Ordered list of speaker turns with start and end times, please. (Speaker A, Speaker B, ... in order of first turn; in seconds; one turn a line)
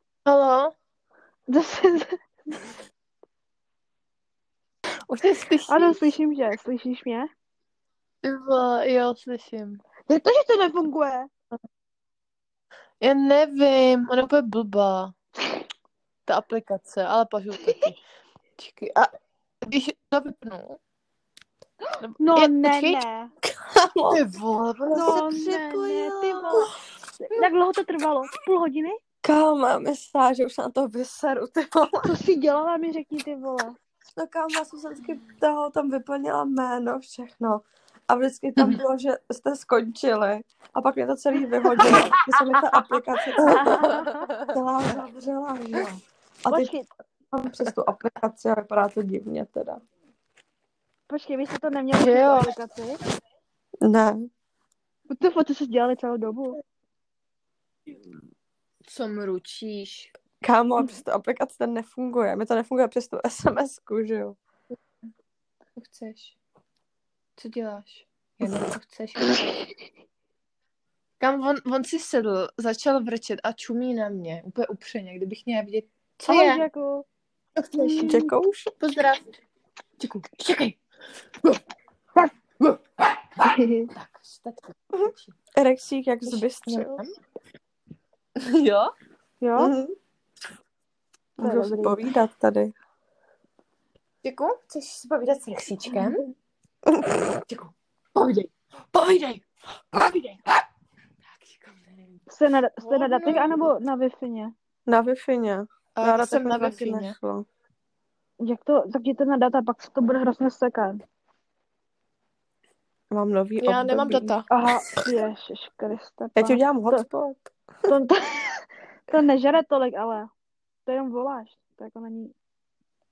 Speaker A: 0.3-0.8
Speaker B: 1.5-2.1
Speaker A: 5.1-6.1
Speaker B: 5.7-7.3
Speaker A: 8.2-9.8
Speaker B: 10.1-11.3
Speaker A: 13.0-15.2
Speaker A: 16.3-18.0
Speaker A: 18.6-19.1
Speaker A: 19.6-20.8
Speaker A: 22.0-23.0
Speaker B: 22.2-23.3
Speaker C: 23.5-24.2
Speaker A: 24.1-25.2
Speaker C: 24.9-26.7
Speaker B: 24.9-26.7
Speaker B: 27.2-29.0
Speaker C: 29.2-32.1
Speaker B: 32.0-33.8
Speaker C: 34.1-46.7
Speaker B: 42.3-42.6
Speaker B: 43.5-44.3
Speaker A: 43.5-44.5
Speaker B: 46.5-46.9
Speaker C: 47.3-49.8
Speaker B: 51.1-53.0
Speaker A: 52.0-52.5
Speaker C: 53.8-54.3
Speaker B: 55.1-56.6
Speaker A: 58.8-60.1
Speaker C: 60.4-64.4
Speaker A: 65.8-66.4
Speaker A: 67.4-69.5
Speaker A: 71.2-76.6
Speaker B: 76.2-77.1
Speaker A: 77.6-78.2
Speaker B: 77.8-78.3
Speaker C: 78.1-78.7
Speaker A: 78.8-79.3
Speaker A: 80.0-80.8
Speaker A: 82.6-85.4
Speaker B: 83.5-83.9
Speaker C: 85.6-87.0
Speaker A: 86.3-87.1
Speaker A: 88.4-88.9
Speaker B: 89.4-89.7
Speaker C: 89.6-89.9
Speaker B: 91.4-92.0
Speaker C: 91.4-92.7
Speaker A: 94.2-96.2
Speaker C: 96.9-97.2
Speaker A: 97.4-100.6
Speaker A: 101.3-102.2
Speaker B: 102.3-104.5
Speaker A: 102.8-103.7
Speaker C: 104.9-107.5
Speaker A: 106.0-107.2
Speaker B: 108.4-111.0
Speaker C: 113.1-114.4
Speaker A: 113.6-114.5
Speaker B: 114.5-117.1
Speaker C: 116.4-117.5
Speaker B: 117.9-120.3
Speaker B: 120.9-122.3